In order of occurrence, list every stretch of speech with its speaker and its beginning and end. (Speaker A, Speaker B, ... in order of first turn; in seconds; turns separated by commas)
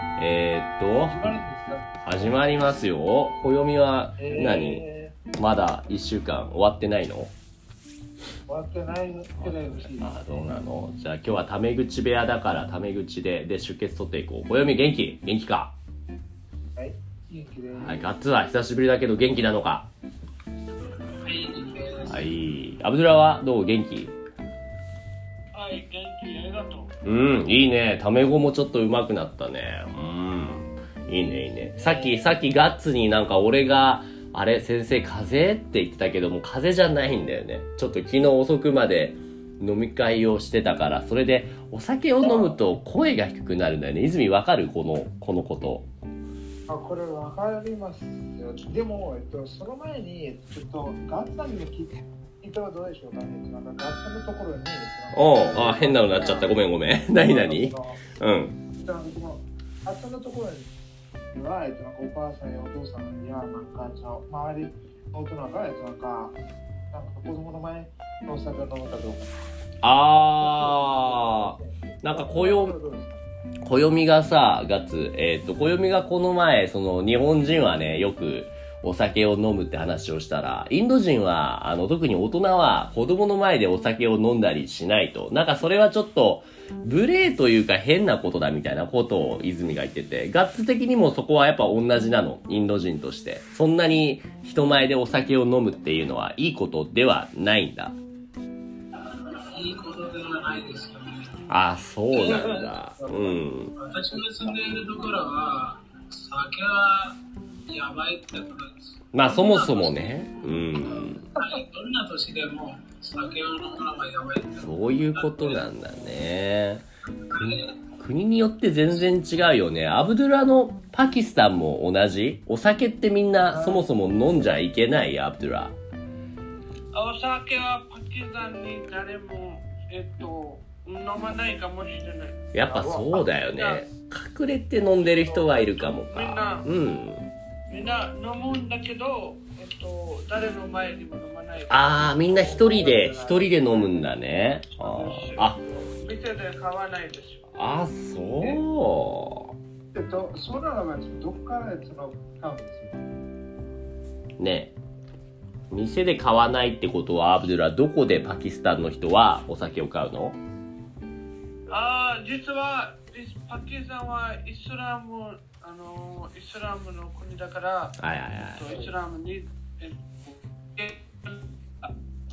Speaker A: 0.2-1.2, Speaker B: 1.1-2.4, Speaker A: 2.0-4.8, Speaker B: 4.2-5.1, Speaker A: 5.4-7.3, Speaker B: 8.5-10.5, Speaker A: 9.4-15.7, Speaker B: 16.8-18.1, Speaker A: 17.8-19.9, Speaker C: 21.2-22.3, Speaker A: 22.1-24.2, Speaker D: 25.5-26.9, Speaker A: 27.1-45.9, Speaker B: 31.0-32.4, Speaker B: 42.2-42.6, Speaker B: 46.7-56.5, Speaker A: 55.1-58.6, Speaker B: 57.2-58.0, Speaker B: 58.7-60.7, Speaker B: 61.3-66.4, Speaker B: 66.9-69.3, Speaker A: 69.8-72.8, Speaker B: 70.4-73.2, Speaker A: 73.6-98.0, Speaker C: 99.5-101.4, Speaker A: 101.5-103.7, Speaker C: 102.1-102.5, Speaker B: 102.1-103.4, Speaker C: 103.8-110.2, Speaker B: 104.2-104.6, Speaker A: 109.1-111.3, Speaker C: 110.8-115.7, Speaker A: 114.5-125.8, Speaker C: 117.2-117.8, Speaker B: 123.4-123.9, Speaker D: 126.9-132.5, Speaker A: 132.5-137.2, Speaker B: 132.7-133.2, Speaker D: 133.3-133.8, Speaker D: 134.8-136.7, Speaker D: 137.7-142.1, Speaker A: 141.7-145.6, Speaker B: 142.1-144.1, Speaker D: 144.8-147.5, Speaker A: 147.5-149.5, Speaker B: 149.9-153.1, Speaker A: 154.4-154.8, Speaker A: 155.7-160.4, Speaker D: 161.7-171.9, Speaker A: 168.0-168.8